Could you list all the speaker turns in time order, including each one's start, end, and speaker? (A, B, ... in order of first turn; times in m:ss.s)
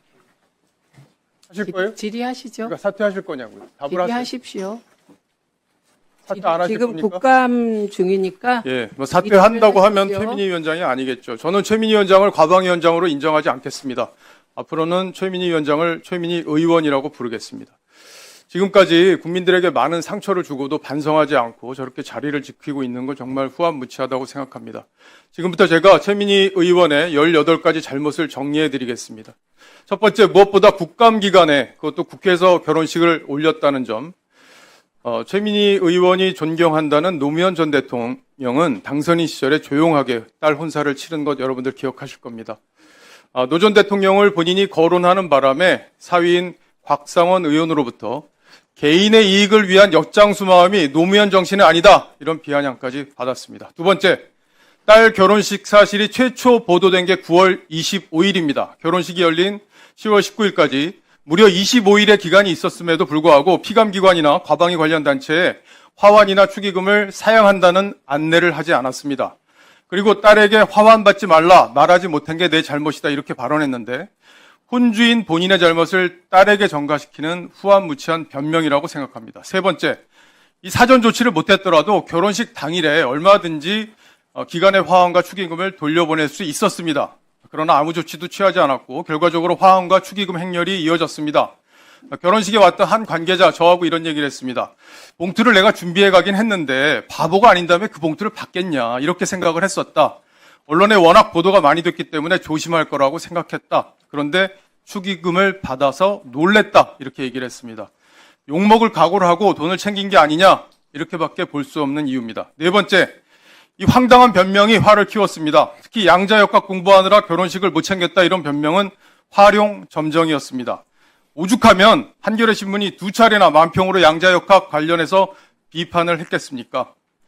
0:01.5-0:02.0 A
0:01.7-0:02.7 B
0:02.6-0:04.3 A
0:03.9-0:04.8 B
0:06.2-0:07.2 A
0:06.4-0:08.6 B
0:08.6-0:17.7 A
0:09.2-0:10.4 B
0:18.5-0:29.4 A
0:29.9-0:34.1 A
0:35.0-0:42.6 A
0:43.3-0:54.2 A
0:54.8-1:09.3 A
1:09.9-1:14.1 A
1:14.7-1:20.0 A
1:20.6-1:31.6 A
1:32.1-1:47.9 A
1:48.5-1:53.1 A
1:53.8-2:00.8 A
2:01.3-2:06.9 A